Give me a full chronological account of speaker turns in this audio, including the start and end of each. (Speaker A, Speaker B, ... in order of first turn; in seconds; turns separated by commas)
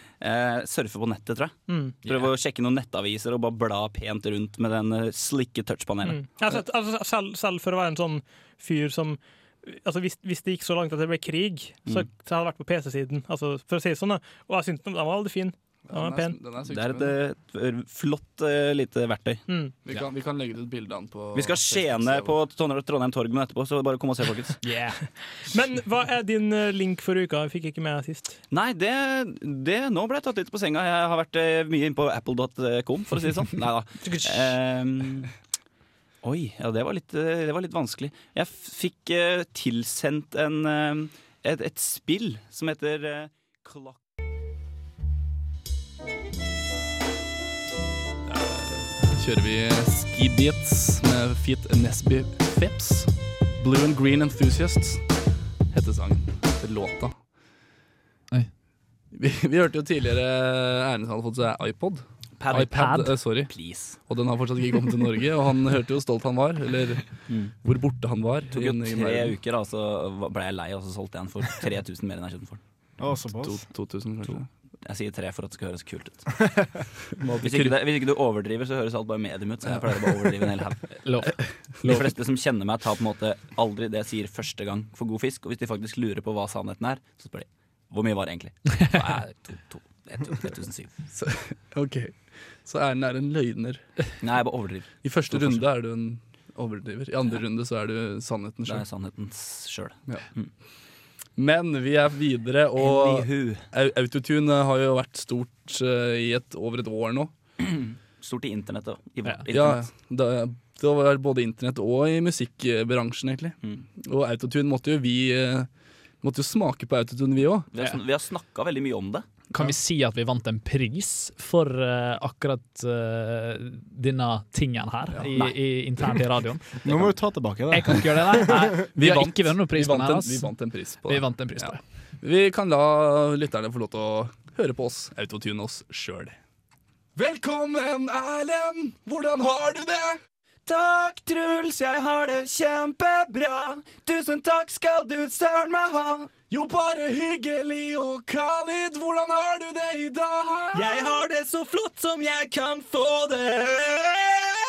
Speaker A: 0.2-6.3, Speaker B: 1.7-2.0, Speaker B: 6.0-16.4, Speaker C: 15.9-17.2, Speaker A: 16.7-19.4, Speaker B: 19.5-19.8, Speaker C: 19.9-22.4, Speaker A: 21.4-24.6, Speaker D: 24.6-25.0, Speaker B: 25.5-28.4, Speaker A: 28.5-35.3, Speaker B: 34.0-34.5, Speaker A: 36.2-44.0, Speaker C: 48.3-55.1, Speaker C: 55.7-57.2, Speaker C: 59.1-63.5, Speaker A: 62.4-62.9, Speaker D: 62.5-63.1, Speaker A: 63.4-64.0, Speaker C: 64.1-67.1, Speaker A: 67.3-67.5, Speaker C: 67.6-69.4, Speaker A: 68.5-72.6, Speaker E: 73.0-73.7, Speaker C: 73.4-74.5, Speaker A: 74.8-76.3, Speaker C: 77.2-77.8, Speaker A: 77.4-80.9, Speaker D: 81.0-82.1, Speaker A: 81.8-91.0, Speaker C: 91.1-93.9, Speaker A: 94.2-95.7, Speaker C: 95.0-98.8, Speaker A: 98.7-100.5, Speaker C: 101.4-107.3, Speaker A: 102.8-103.6, Speaker A: 107.6-109.9, Speaker C: 109.5-115.7, Speaker C: 116.2-117.7, Speaker A: 117.7-119.3, Speaker D: 119.5-127.1, Speaker E: 126.8-128.8, Speaker D: 127.7-130.5, Speaker C: 128.8-136.4, Speaker D: 131.1-131.8, Speaker C: 137.2-140.2, Speaker A: 140.7-146.2, Speaker C: 146.4-151.1